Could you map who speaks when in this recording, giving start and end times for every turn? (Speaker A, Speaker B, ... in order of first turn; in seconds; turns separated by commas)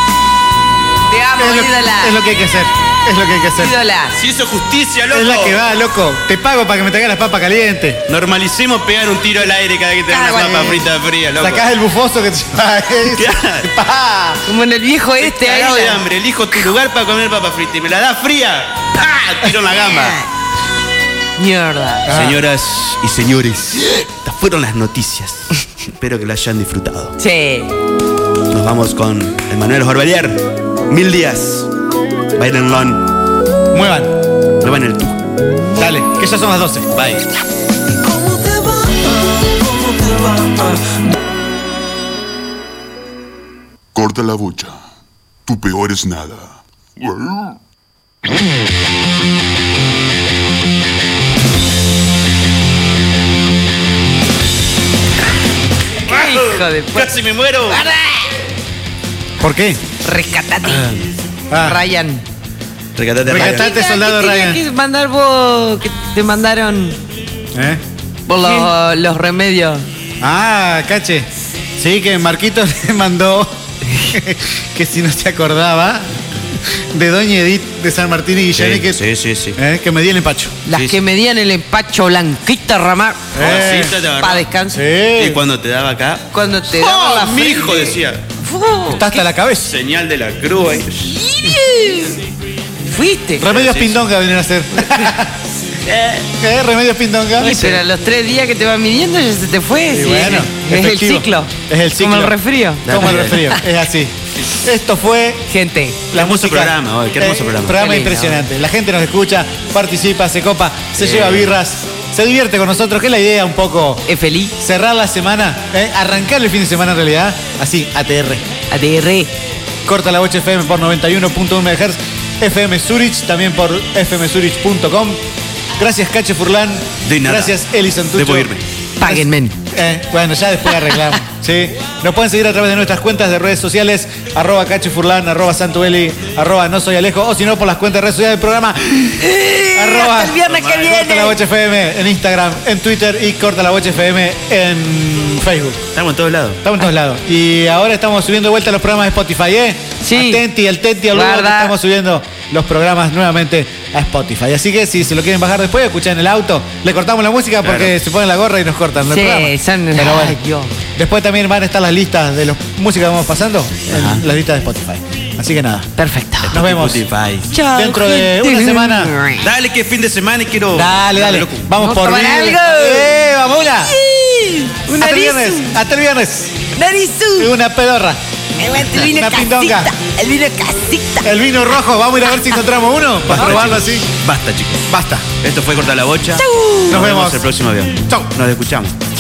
Speaker A: 1.1-2.2, Speaker B: 1.4-3.8, Speaker A: 3.6-4.2, Speaker C: 4.2-5.6, Speaker B: 5.1-8.0, Speaker C: 8.1-11.7, Speaker A: 10.1-10.8, Speaker B: 11.4-14.4, Speaker C: 13.1-13.7, Speaker A: 14.4-16.0, Speaker C: 15.2-20.2, Speaker A: 21.4-22.1, Speaker B: 22.1-22.4, Speaker C: 22.1-27.1, Speaker A: 27.2-27.7, Speaker C: 28.5-31.7, Speaker C: 32.4-33.1, Speaker B: 33.7-34.1, Speaker C: 34.6-35.2, Speaker B: 35.8-36.9, Speaker C: 36.9-37.2, Speaker D: 44.0-44.8, Speaker D: 45.5-47.6, Speaker A: 56.1-57.1, Speaker C: 56.1-57.8, Speaker A: 57.7-58.3, Speaker B: 59.4-59.8, Speaker A: 60.0-60.9, Speaker C: 60.6-61.1, Speaker B: 61.5-61.8, Speaker A: 61.5-62.2, Speaker C: 63.0-63.7, Speaker B: 63.2-64.6, Speaker A: 63.4-67.0, Speaker B: 67.5-67.8, Speaker A: 68.3-69.8, Speaker B: 70.2-73.6, Speaker B: 74.1-79.0, Speaker C: 78.6-79.6, Speaker B: 79.5-80.6, Speaker A: 80.7-83.3, Speaker C: 80.7-81.0, Speaker B: 83.3-84.0, Speaker C: 83.4-84.5, Speaker A: 84.1-84.8, Speaker B: 84.7-85.4, Speaker C: 85.2-88.2, Speaker A: 86.3-89.2, Speaker B: 88.9-89.7, Speaker C: 89.6-91.2, Speaker A: 91.1-92.2, Speaker A: 92.8-93.5, Speaker B: 93.4-95.4, Speaker C: 93.4-94.1, Speaker C: 95.8-96.3, Speaker B: 96.4-97.5, Speaker A: 97.4-103.6, Speaker C: 97.4-97.8, Speaker B: 99.9-105.5, Speaker C: 102.9-103.5, Speaker A: 105.5-106.0, Speaker B: 106.1-118.5, Speaker C: 106.1-107.8, Speaker A: 107.7-108.4, Speaker C: 111.0-111.5, Speaker A: 114.1-114.5, Speaker A: 118.7-119.3, Speaker B: 119.8-125.2, Speaker B: 125.8-145.9, Speaker C: 127.0-127.6, Speaker C: 128.1-128.6, Speaker A: 129.0-129.6, Speaker A: 139.2-141.4, Speaker C: 140.4-141.0, Speaker C: 145.9-146.6, Speaker B: 146.6-160.4, Speaker A: 150.0-150.4, Speaker A: 151.1-151.8, Speaker C: 157.6-157.9, Speaker A: 159.1-160.8, Speaker B: 160.9-165.9, Speaker C: 163.9-164.2, Speaker A: 166.0-166.5, Speaker C: 166.4-167.5, Speaker B: 166.5-167.1, Speaker A: 167.5-169.5, Speaker B: 167.6-169.1, Speaker C: 169.4-171.7, Speaker B: 170.7-173.9, Speaker A: 171.8-173.1, Speaker A: 173.8-175.8, Speaker B: 175.0-176.7, Speaker A: 176.7-177.5, Speaker B: 177.4-178.2, Speaker A: 178.6-181.4, Speaker B: 178.8-179.9, Speaker B: 181.2-184.1, Speaker C: 183.3-184.9, Speaker A: 183.3-183.8, Speaker B: 184.9-185.3, Speaker C: 185.4-188.9, Speaker A: 186.4-187.0, Speaker B: 186.9-187.4